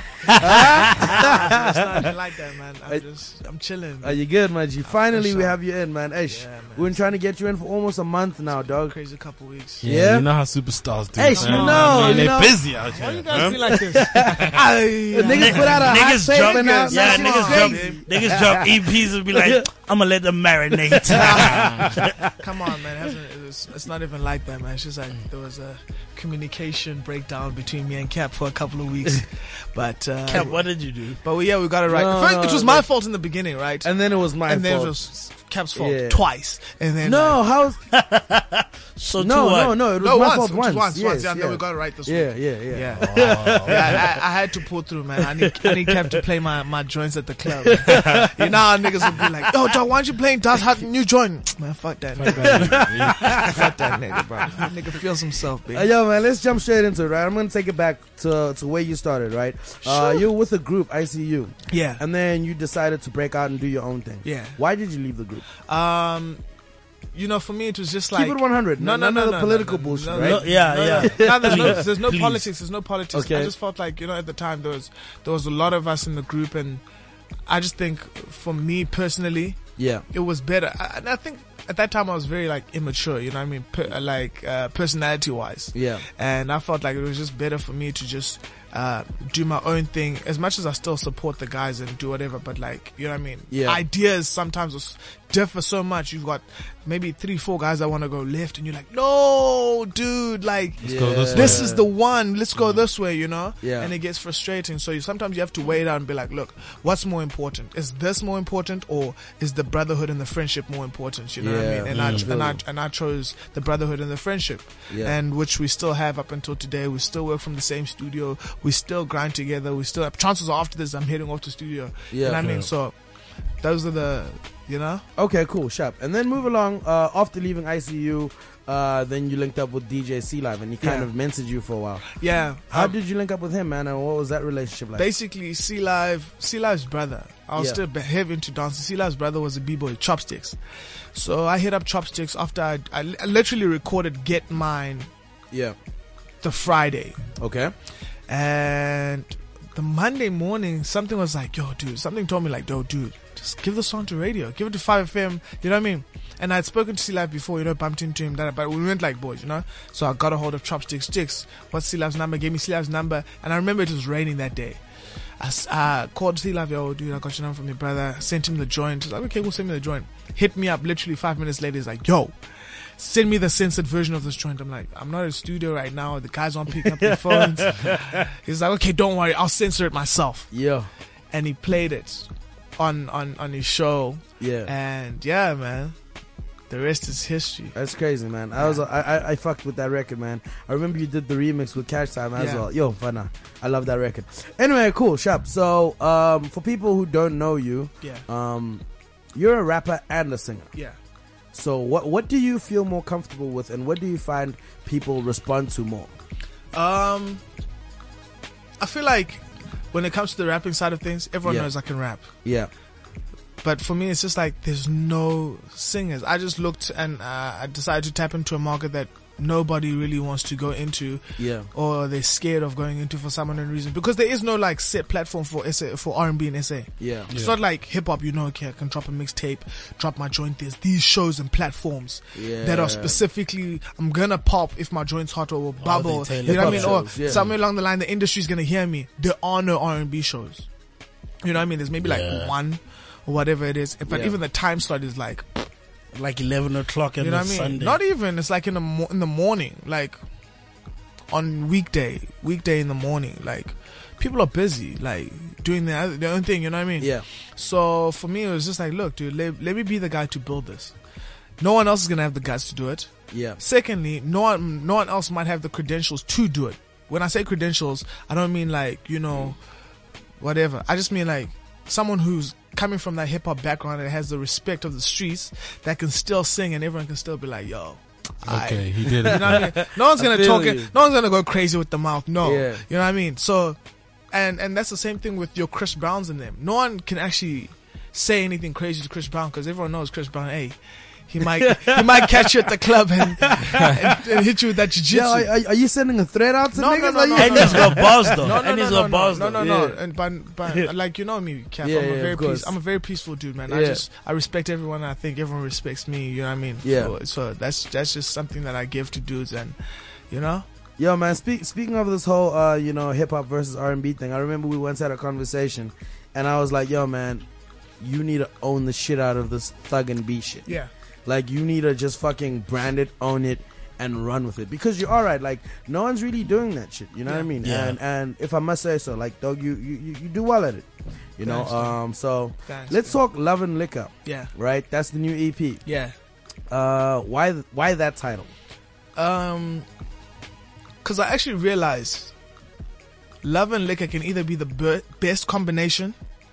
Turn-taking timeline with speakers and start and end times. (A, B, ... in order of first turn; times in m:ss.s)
0:00.3-0:02.1 A
0:00.3-0:04.2 B
0:04.0-0:09.0 A
0:04.8-0:05.6 B
0:06.3-0:07.0 B
0:08.7-0:09.9 B
0:09.8-0:10.3 A
0:09.8-0:14.0 C
0:11.2-0:12.7 A
0:11.3-0:18.0 B
0:13.3-0:19.7 A
0:15.3-0:22.0 D
0:20.9-0:21.6 A
0:21.1-0:33.9 B
0:30.3-0:31.2 D
0:31.9-0:32.9 A
0:33.8-0:35.0 A
0:34.5-0:37.4 B
0:35.8-0:36.2 A
0:37.0-0:37.8 A
0:37.9-0:39.8 D
0:39.2-0:44.1 A
0:40.0-0:55.9 B
0:43.0-0:44.0 C
0:47.6-0:48.3 A
0:52.2-0:53.7 C
0:52.3-0:53.7 A
0:55.7-1:05.4 A
0:59.8-1:00.2 B
1:01.7-1:02.0 B
1:04.2-1:04.6 B
1:05.7-1:06.4 B
1:07.1-1:16.8 B
1:08.1-1:11.9 A
1:10.1-1:12.5 D
1:13.1-1:13.5 A
1:17.5-1:19.6 B
1:19.8-1:20.0 A
1:20.1-2:03.0 B
1:25.7-1:26.1 A
1:33.5-1:33.8 A
1:40.8-1:41.8 A
1:40.8-1:41.7 C
1:43.6-1:43.9 A
1:51.4-1:52.6 A
1:51.9-1:52.3 C
1:54.9-1:55.2 A
2:02.1-2:02.5 A
2:02.4-2:02.7 C
2:03.6-2:05.0 B
2:05.2-2:12.1 A
2:10.8-2:11.1 B
2:12.1-2:12.9 B
2:12.7-2:15.1 A
2:15.0-2:20.6 B
2:21.1-2:25.1 B
2:26.4-2:27.2 B
2:27.4-2:27.7 A
2:28.3-2:44.8 B
2:45.4-2:52.4 B
2:53.0-3:00.5 B
2:57.4-2:57.6 A
3:00.5-3:00.9 A
3:01.3-3:06.0 B
3:04.4-3:04.7 A
3:06.7-3:07.8 B
3:07.8-3:18.8 A
3:12.4-3:12.6 B
3:19.4-3:20.7 A
3:21.5-3:26.1 A
3:26.7-3:27.4 B
3:28.8-3:32.3 B
3:31.4-3:31.7 A
3:32.4-3:32.7 A
3:33.6-3:41.2 B
3:41.4-3:41.7 A
3:41.7-4:00.7 B
3:47.0-3:47.3 A
3:52.4-3:53.2 A
3:55.8-3:57.5 D
3:56.4-3:57.4 A
4:01.4-4:05.7 B
4:02.0-4:02.5 D
4:04.1-4:04.4 A
4:06.1-4:08.0 D
4:07.2-4:10.2 B
4:11.3-4:21.0 B
4:17.0-4:17.3 A
4:21.6-4:29.6 B
4:23.3-4:23.6 A
4:30.4-4:43.8 B
4:38.4-4:39.7 C
4:39.2-4:40.9 A
4:42.4-4:42.8 A
4:44.3-4:55.5 B
4:51.4-4:52.6 A
4:53.4-4:53.9 A
4:55.1-4:58.7 A
4:56.7-5:09.8 B
4:57.4-4:59.7 D
4:59.5-5:00.0 A
5:01.8-5:02.7 A
5:03.7-5:04.0 A
5:06.8-5:07.1 A
5:10.3-5:10.6 B
5:11.0-5:17.4 A
5:18.0-5:20.7 A
5:21.3-5:35.8 A
5:27.6-5:28.0 D
5:31.4-5:32.0 B
5:32.7-5:33.2 B
5:34.3-5:34.5 B
5:35.8-5:36.1 B
5:36.7-5:38.5 A
5:39.2-5:39.9 B
5:41.0-5:42.3 B
5:43.4-5:46.2 B